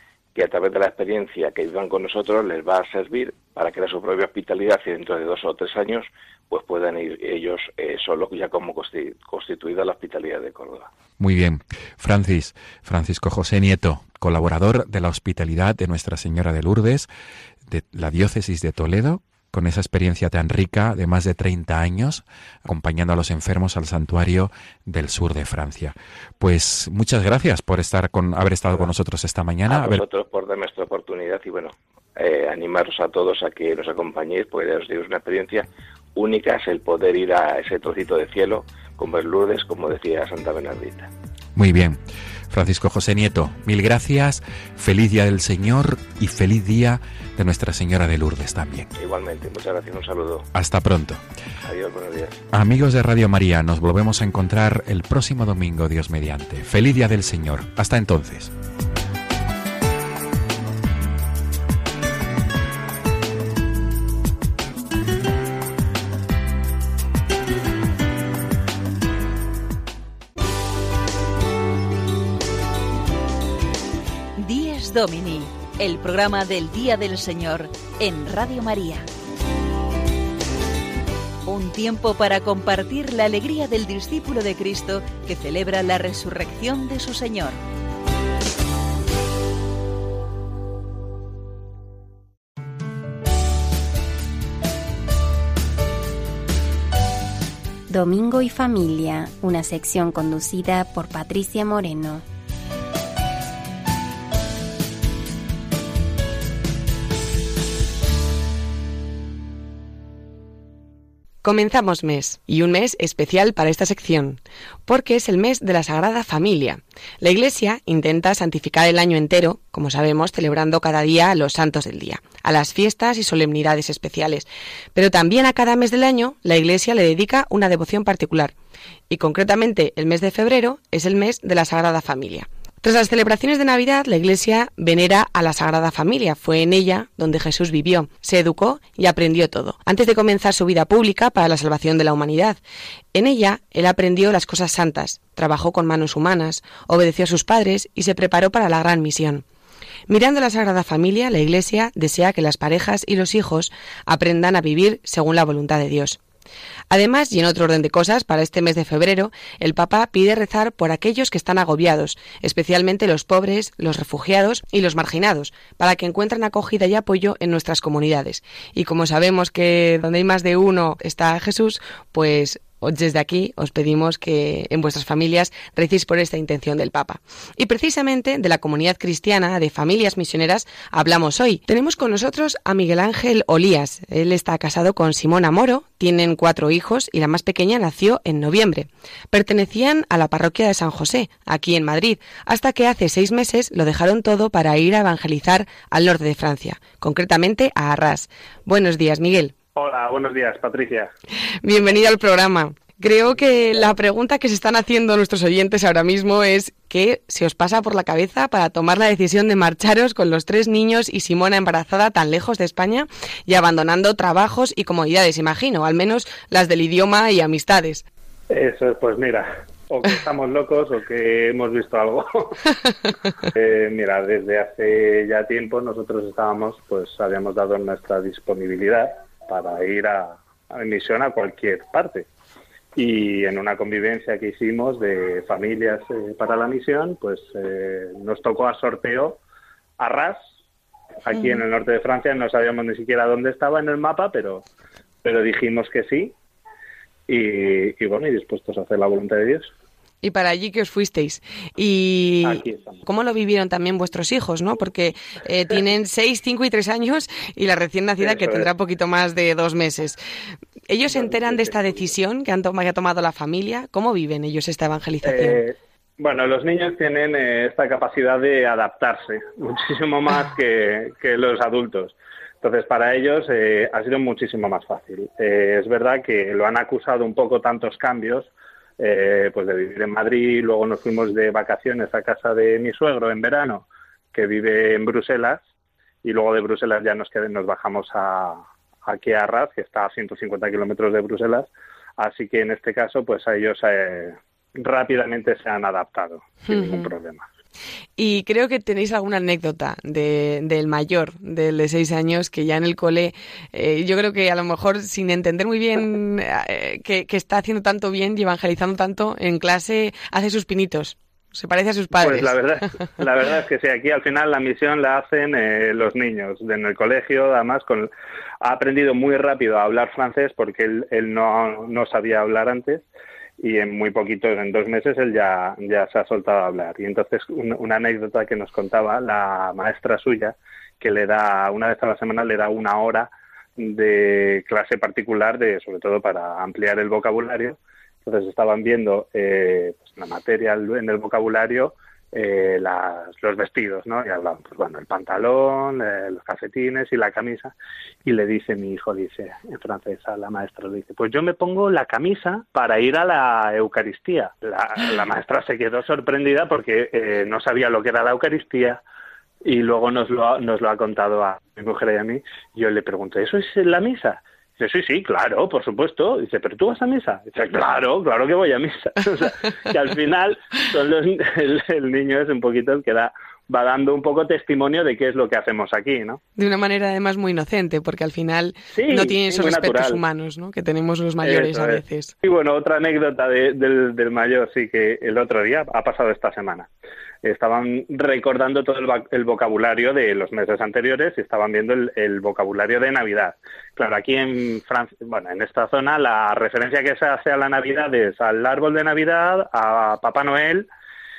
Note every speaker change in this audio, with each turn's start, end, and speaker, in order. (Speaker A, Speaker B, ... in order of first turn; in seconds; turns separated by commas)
Speaker A: 0.3-10.9, Speaker B: 11.2-17.1, Speaker B: 17.7-30.0, Speaker A: 29.7-41.1, Speaker B: 41.5-42.0, Speaker B: 42.5-48.9, Speaker A: 49.0-50.5, Speaker B: 50.5-51.2, Speaker A: 51.6-52.4, Speaker B: 52.5-58.5, Speaker C: 74.4-79.0, Speaker C: 81.5-87.6, Speaker D: 97.9-102.2, Speaker E: 111.4-128.5, Speaker E: 129.1-142.6, Speaker E: 143.1-149.4, Speaker E: 150.1-156.2, Speaker E: 156.9-199.5, Speaker F: 199.7-201.1, Speaker E: 201.6-218.0, Speaker F: 218.5-222.6, Speaker F: 223.5-232.3, Speaker F: 232.9-239.4, Speaker F: 240.0-240.4, Speaker F: 241.2-244.6, Speaker E: 241.3-241.6, Speaker F: 245.2-246.3, Speaker F: 247.3-249.7, Speaker E: 250.2-260.2, Speaker F: 252.4-253.0, Speaker F: 258.2-258.7, Speaker E: 260.9-265.6, Speaker F: 261.1-262.1, Speaker F: 265.2-285.6, Speaker F: 286.2-297.4, Speaker E: 296.6-297.1, Speaker E: 298.2-312.6, Speaker F: 312.1-318.1, Speaker F: 318.6-323.0, Speaker F: 323.6-359.0, Speaker F: 359.6-376.4, Speaker E: 376.6-382.3, Speaker F: 378.9-380.2, Speaker F: 381.4-386.9, Speaker F: 387.4-400.9